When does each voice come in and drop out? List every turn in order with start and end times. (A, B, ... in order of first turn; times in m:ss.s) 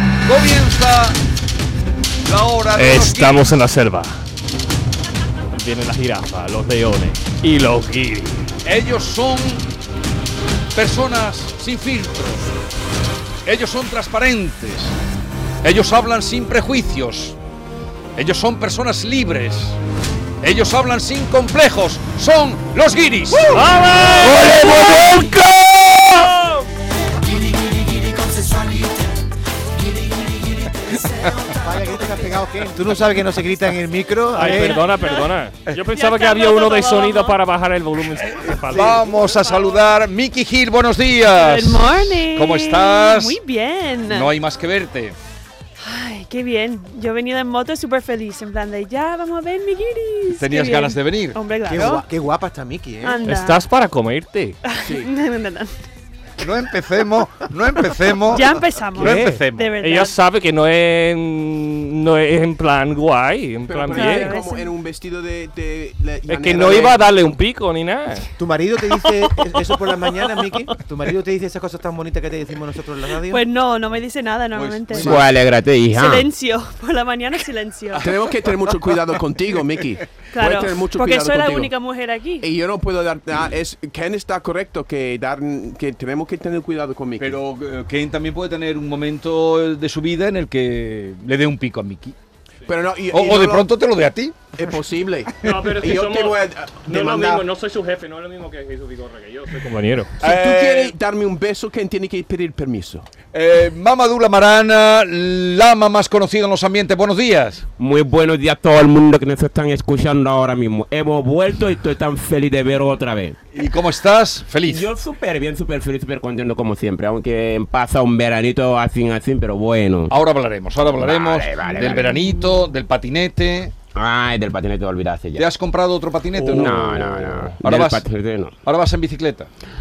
0:00.2-0:01.2 A
0:02.2-0:03.4 A
0:02.7-0:04.2 B
0:05.5-0:08.5 B
0:08.6-0:09.6 A
0:10.8-0:12.5 A
0:13.4-0:15.0 A
0:15.6-0:17.4 A
0:18.2-0:19.8 A
0:20.4-0:26.5 A
0:23.5-0:25.1 B
0:31.0-0:31.4 A
0:31.5-0:34.8 C
0:34.4-0:39.0 B
0:34.4-0:35.2 D
0:35.9-0:37.4 D
0:38.2-0:43.4 A
0:38.7-0:39.0 C
0:38.8-0:40.0 D
0:41.3-0:44.3 D
0:44.1-0:45.2 A
0:45.8-0:52.0 D
0:50.4-0:51.4 A
0:51.7-0:53.2 C
0:53.0-0:53.6 D
0:53.2-0:54.6 B
0:54.7-0:55.7 D
0:54.8-0:55.1 E
0:56.4-0:59.7 A
0:58.3-1:00.1 D
0:59.0-1:04.4 B
1:03.7-1:07.0 E
1:03.9-1:04.8 D
1:06.3-1:08.3 B
1:08.4-1:13.4 C
1:09.0-1:10.6 D
1:13.3-1:15.2 D
1:14.5-1:15.2 A
1:15.0-1:16.3 F
1:15.9-1:18.1 D
1:18.0-1:21.7 E
1:20.2-1:22.5 D
1:22.4-1:27.4 E
1:27.2-1:32.2 A
1:32.7-1:33.7 E
1:33.1-1:34.6 A
1:34.6-1:37.5 E
1:35.4-1:40.1 B
1:40.2-1:41.0 A
1:40.2-1:43.1 E
1:43.3-1:47.6 A
1:47.8-1:53.4 F
1:53.5-1:54.9 A
1:54.7-2:00.1 F
2:00.1-2:03.7 A
2:00.8-2:02.5 F
2:04.0-2:05.5 F
2:05.4-2:08.0 A
2:06.4-2:08.6 F
2:08.6-2:09.5 A